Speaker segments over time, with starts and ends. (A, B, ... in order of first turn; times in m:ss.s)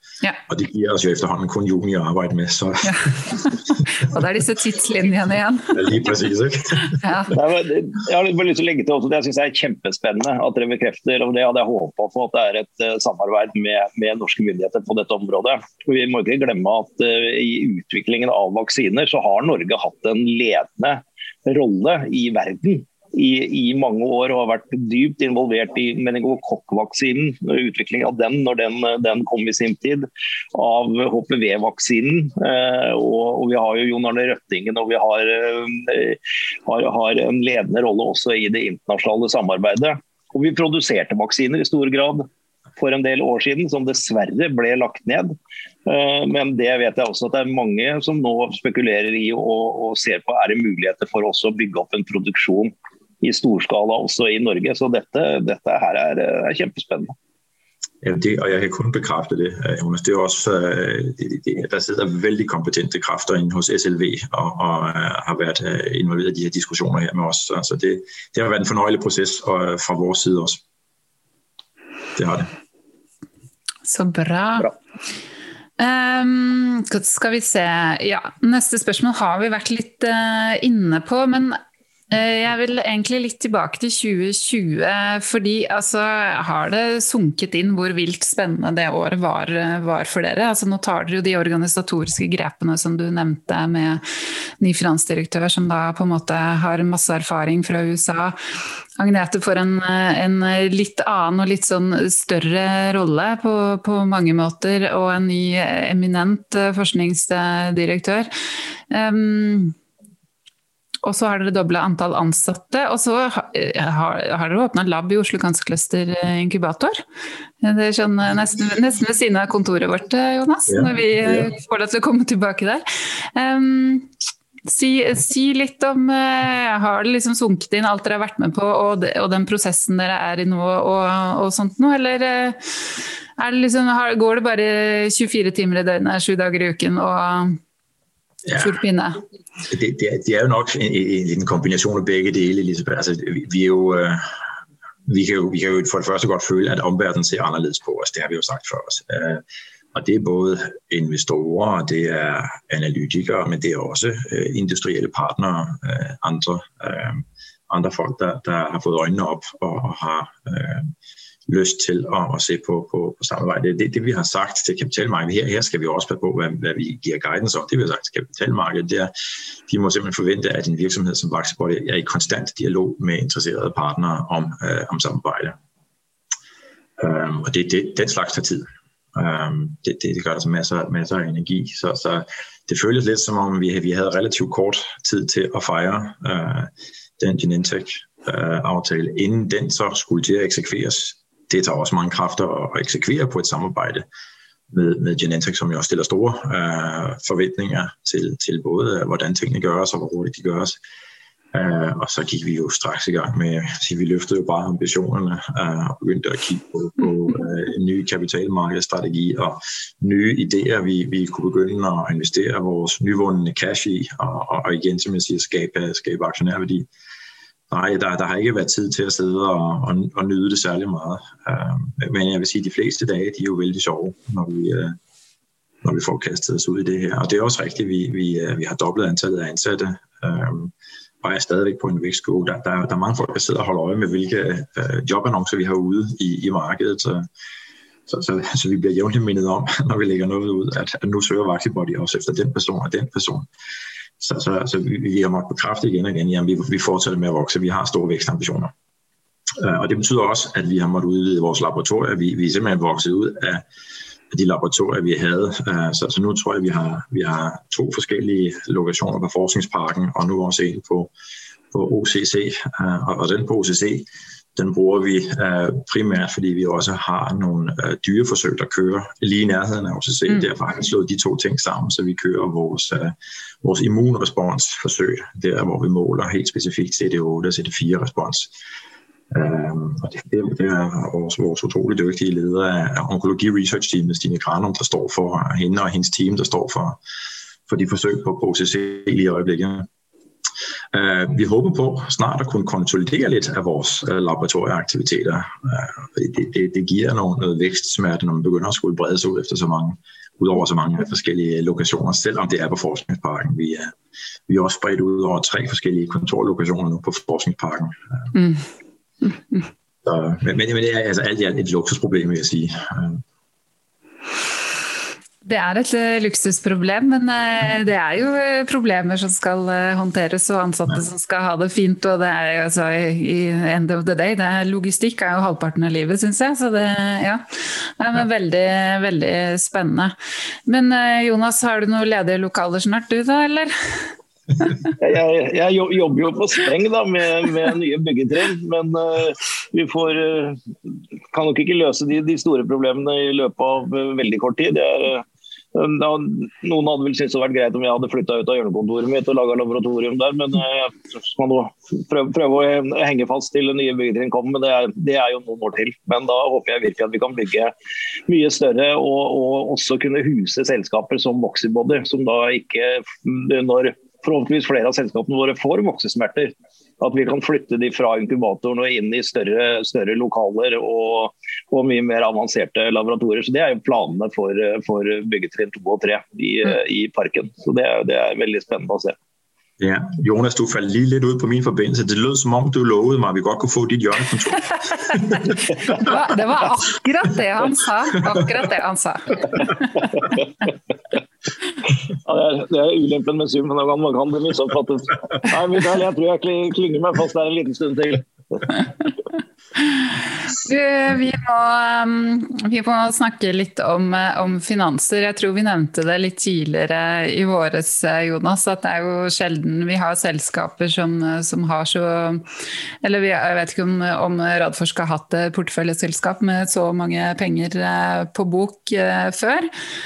0:00.5-0:03.5 A
0:02.8-0:05.9 B
0:05.7-0:07.0 A
0:06.9-0:07.3 B
0:07.3-0:42.2 C
0:42.8-0:45.3 C
0:45.8-0:57.1 C
0:58.0-1:10.6 A
1:12.1-1:12.5 A
1:13.8-1:14.7 B
1:15.8-1:21.6 B
1:22.1-1:34.0 B
1:34.6-1:38.4 B
1:39.0-1:48.3 B
1:48.9-1:49.7 B
1:51.0-1:57.0 B
1:57.6-2:02.8 B
2:00.7-2:01.5 A
2:03.3-2:04.1 B
2:04.7-2:17.6 B
2:18.4-2:18.7 A
2:18.6-2:19.2 B
2:19.7-2:24.4 A
2:25.0-2:29.4 A
2:29.9-2:40.9 A
2:41.5-2:49.1 A
2:49.7-2:55.6 A
2:57.0-3:14.0 A
3:14.7-3:20.8 A
3:21.5-3:36.9 A
3:37.7-3:45.0 A
3:45.8-3:57.3 A
3:58.1-4:03.5 A
4:04.2-4:08.7 A
4:09.6-4:13.6 A
4:14.3-4:21.1 A
4:21.7-4:38.5 A
4:39.3-4:47.0 A
4:47.7-4:49.9 A
4:50.9-5:03.9 A
5:04.5-5:08.3 A
5:08.3-5:08.6 B
5:10.0-5:13.2 A
5:15.4-5:30.1 B
5:30.7-5:34.0 B
5:35.0-5:40.6 C
5:41.3-5:57.7 C
5:58.3-6:19.2 C
6:19.8-6:26.1 A
6:25.8-6:30.1 B
6:32.2-6:38.8 C
6:39.9-6:52.4 B
6:53.0-6:59.7 B